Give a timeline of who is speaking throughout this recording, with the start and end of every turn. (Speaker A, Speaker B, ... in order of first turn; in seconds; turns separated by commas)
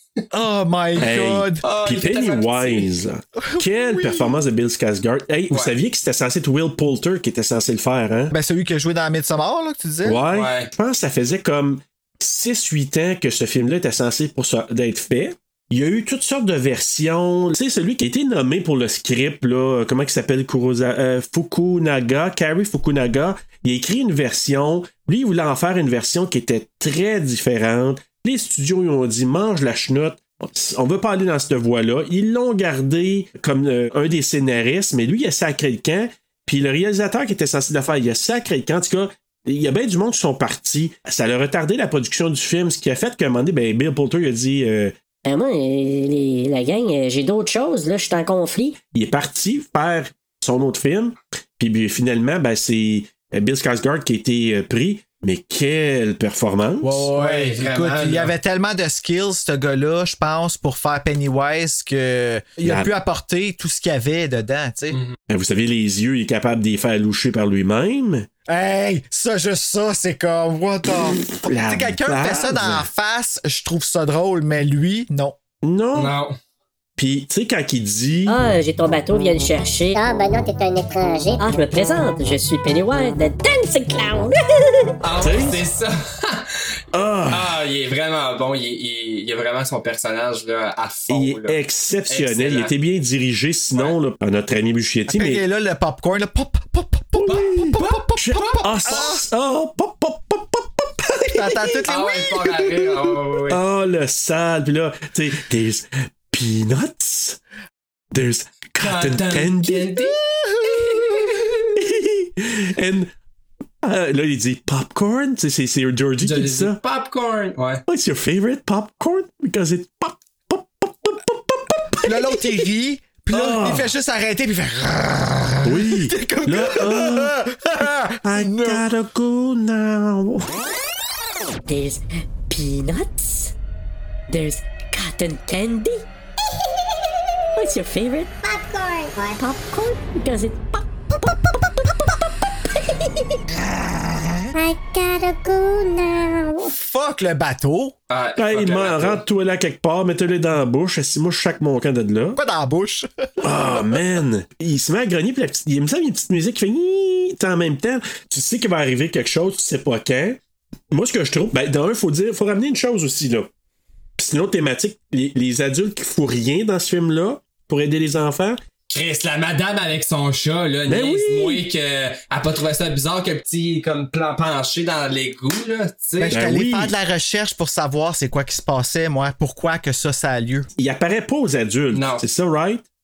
Speaker A: 0.3-1.6, Speaker B: 1.0-8.3, Speaker C: 1.6-2.9, Speaker A: 3.4-4.4, Speaker A: 8.3-10.2, Speaker B: 10.0-44.9, Speaker C: 10.3-10.7, Speaker D: 45.2-48.8, Speaker B: 48.9-57.1, Speaker A: 56.8-65.0, Speaker C: 57.1-58.3, Speaker B: 62.6-62.9, Speaker B: 65.3-68.3, Speaker A: 68.5-75.4, Speaker B: 71.2-72.9, Speaker B: 75.6-76.1, Speaker C: 76.0-76.4, Speaker B: 77.0-78.4, Speaker D: 78.2-80.0, Speaker E: 79.9-81.5, Speaker D: 81.4-84.9, Speaker C: 85.0-86.5, Speaker B: 85.2-85.6, Speaker B: 86.9-87.6, Speaker C: 87.3-91.5, Speaker B: 91.1-95.4, Speaker C: 92.1-92.7, Speaker A: 95.1-99.2, Speaker B: 97.2-101.8, Speaker A: 101.3-102.9, Speaker C: 101.9-103.6, Speaker B: 103.5-107.4, Speaker B: 108.1-109.9, Speaker C: 108.8-110.2, Speaker A: 110.1-111.6, Speaker C: 110.8-111.2, Speaker B: 111.7-113.1, Speaker B: 113.8-116.8, Speaker C: 116.2-117.8, Speaker B: 117.9-122.6, Speaker A: 122.0-128.8, Speaker B: 123.3-123.9, Speaker B: 125.6-130.5, Speaker D: 131.7-133.5, Speaker D: 134.3-136.0, Speaker D: 137.6-138.3, Speaker E: 138.4-139.4, Speaker D: 139.4-141.6, Speaker E: 144.5-146.7, Speaker A: 146.6-147.9, Speaker C: 148.1-149.2, Speaker B: 148.4-152.4, Speaker A: 152.3-153.1, Speaker B: 153.4-160.4, Speaker A: 153.6-154.0, Speaker B: 160.9-163.5, Speaker B: 164.2-168.6, Speaker C: 168.9-176.4, Speaker B: 170.9-171.6, Speaker A: 176.2-180.7, Speaker B: 176.3-176.9, Speaker B: 180.8-182.8, Speaker C: 181.9-182.2